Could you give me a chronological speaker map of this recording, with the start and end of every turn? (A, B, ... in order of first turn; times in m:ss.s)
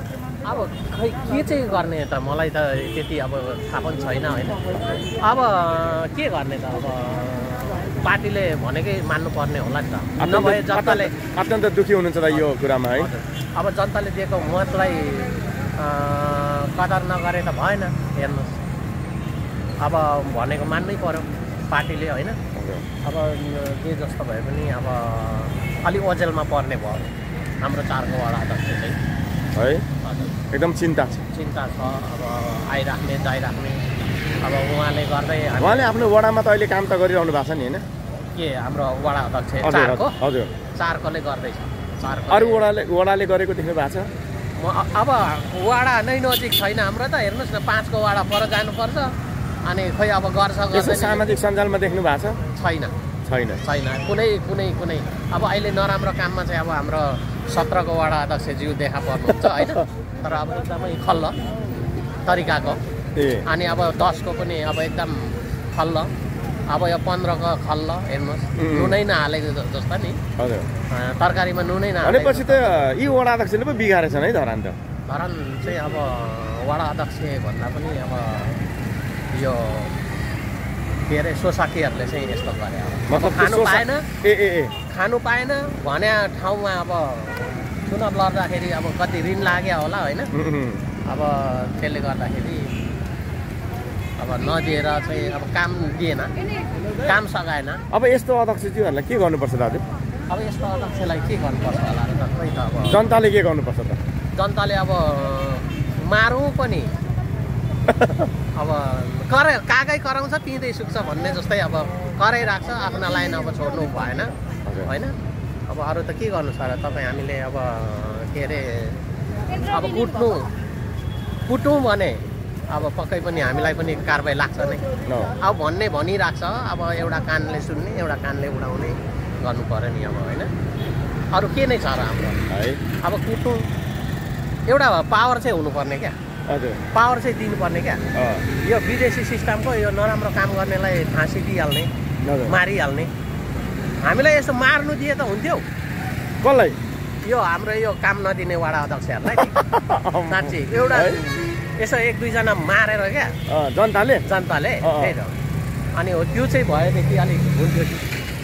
0:00.4-0:11.1 A
0:10.2-0:13.1 B
0:12.3-0:18.6 A
0:19.8-0:22.4 A
0:22.5-0:22.8 B
0:23.0-0:27.1 A
0:27.6-0:29.0 A
0:29.5-0:29.8 B
0:30.0-0:30.3 A
0:30.5-0:31.2 B
0:31.3-0:33.8 A
0:34.4-0:35.9 A
0:35.6-0:37.8 B
0:38.3-0:42.6 A
0:39.6-0:40.5 B
0:42.3-0:44.1 B
0:44.6-0:49.1 A
0:49.6-0:51.4 A
0:50.7-0:52.4 B
0:52.6-0:52.9 A
0:53.2-0:53.6 B
0:53.6-1:01.3 A
0:59.4-0:59.8 B
1:02.2-1:02.8 A
1:03.2-1:03.4 B
1:03.5-1:06.1 A
1:06.7-1:10.2 A
1:08.6-1:09.0 B
1:10.4-1:10.7 B
1:10.9-1:12.7 A
1:12.0-1:14.8 B
1:15.1-1:18.6 A
1:19.3-1:19.9 A
1:21.1-1:24.1 A
1:23.1-1:24.8 B
1:24.9-1:30.3 A
1:30.3-1:30.8 B
1:31.0-1:32.7 A
1:34.2-1:36.3 A
1:37.0-1:37.8 A
1:37.9-1:39.9 B
1:40.3-1:43.0 A
1:42.9-1:44.0 B
1:44.3-1:46.9 A
1:47.9-1:48.3 B
1:48.6-1:54.3 A
1:54.6-1:54.9 B
1:54.8-1:55.1 A
1:55.7-1:59.0 A
1:59.6-2:00.5 A
2:01.4-2:04.8 A
2:05.0-2:05.4 B
2:05.4-2:10.5 A
2:11.3-2:13.6 A
2:12.5-2:12.8 B
2:14.7-2:16.1 A
2:16.5-2:16.8 B
2:16.9-2:18.0 A
2:18.1-2:18.4 B
2:18.6-2:21.9 A
2:22.2-2:22.6 B
2:22.5-2:23.1 A
2:24.0-2:25.6 A
2:26.4-2:26.8 B
2:27.2-2:29.6 A
2:29.3-2:31.2 B
2:30.3-2:33.3 A
2:33.5-2:34.2 B
2:34.2-2:35.4 A
2:34.8-2:35.2 B
2:36.0-2:38.1 A